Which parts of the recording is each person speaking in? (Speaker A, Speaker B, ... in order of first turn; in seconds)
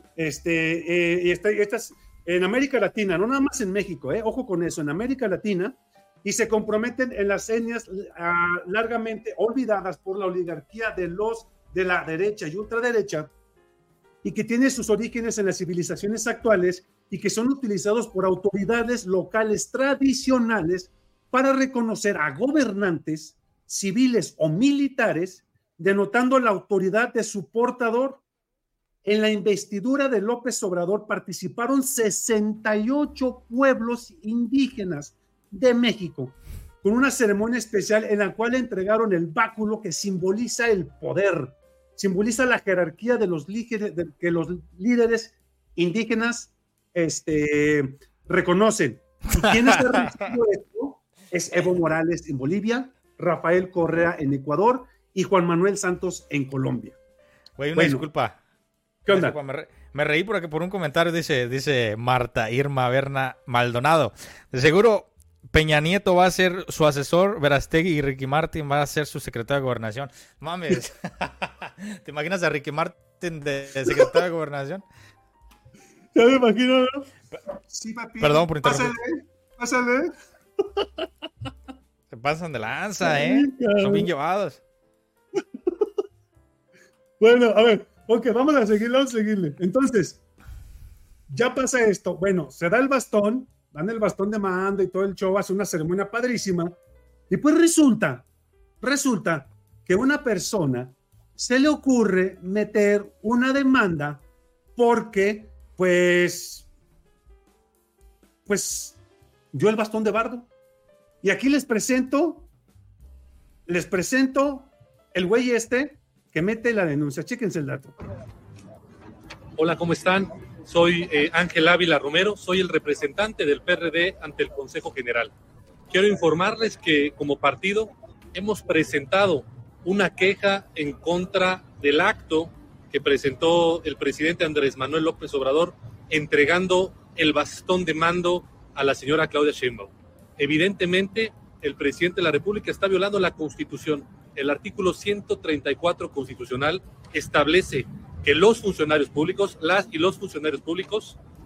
Speaker A: 0.2-13.3, 14.2-28.2, 29.0-57.0, 57.7-58.1, 59.0-59.4, 73.8-74.1, 76.1-77.1, 77.7-80.8, 83.0-84.1, 85.4-85.8, 87.2-90.2, 91.3-96.7, 97.3-98.3, 98.8-104.2, 104.8-106.7, 108.5-109.0, 109.5-110.5, 111.2-112.5, 113.7-118.0
Speaker B: 57.6-58.4, 59.1-74.8, 78.2-78.9, 82.1-84.6
Speaker C: 119.6-125.3, 125.9-151.2